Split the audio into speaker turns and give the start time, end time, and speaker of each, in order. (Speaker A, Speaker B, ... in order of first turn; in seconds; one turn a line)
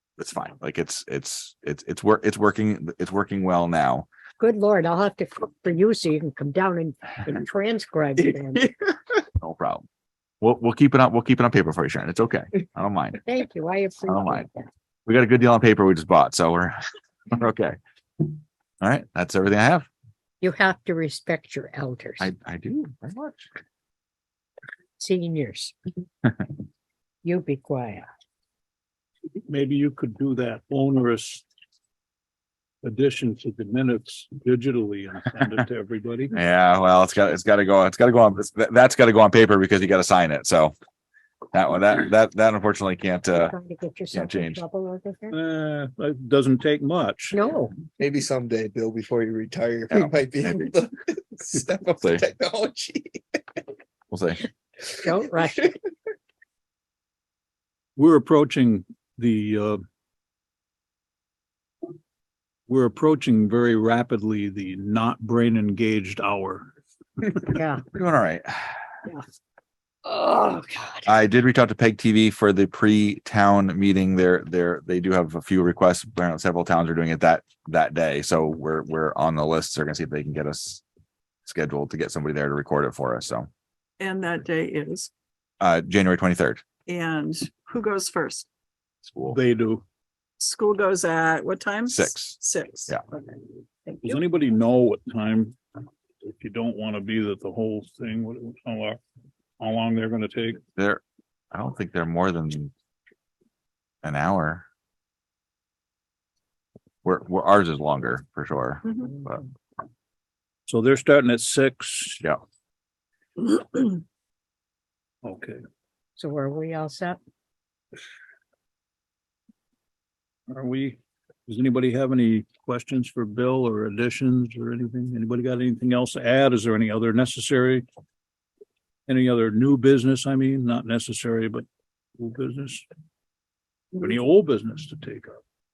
Speaker A: 0.2-4.1
Speaker B: 4.4-8.7
Speaker A: 9.4-9.9
Speaker A: 10.4-13.2
Speaker B: 13.2-14.6
Speaker A: 14.1-14.5
Speaker A: 15.1-16.8
Speaker A: 17.3-17.8
Speaker A: 18.8-19.9
Speaker B: 20.4-22.3
Speaker A: 22.2-23.5
Speaker B: 25.0-25.8
Speaker B: 27.2-28.1
Speaker C: 29.5-31.4
Speaker C: 32.8-36.3
Speaker A: 36.3-40.7
Speaker A: 41.5-43.5
Speaker B: 43.3-45.4
Speaker A: 44.1-44.6
Speaker C: 45.3-47.4
Speaker B: 47.3-47.8
Speaker D: 48.0-53.4
Speaker A: 50.0-50.7
Speaker A: 54.1-54.5
Speaker D: 55.0-55.8
Speaker B: 55.0-55.6
Speaker C: 58.0-59.8
Speaker C: 62.7-66.7
Speaker B: 67.5-67.8
Speaker A: 67.9-68.8
Speaker B: 70.0-71.1
Speaker A: 71.1-80.8
Speaker A: 81.5-83.5
Speaker E: 84.0-85.1
Speaker A: 85.6-86.6
Speaker E: 86.9-88.5
Speaker A: 89.0-89.4
Speaker C: 89.3-89.8
Speaker E: 90.4-94.1
Speaker A: 91.9-92.4
Speaker C: 94.0-95.6
Speaker C: 96.2-99.0
Speaker C: 99.6-100.6
Speaker A: 100.8-101.0
Speaker A: 101.5-102.7
Speaker A: 104.0-104.7
Speaker A: 107.0-109.4
Speaker C: 110.7-112.2
Speaker C: 115.2-115.6
Speaker B: 116.2-117.2
Speaker C: 120.5-127.8
Speaker C: 129.1-131.7
Speaker C: 132.2-132.9
Speaker C: 133.9-135.4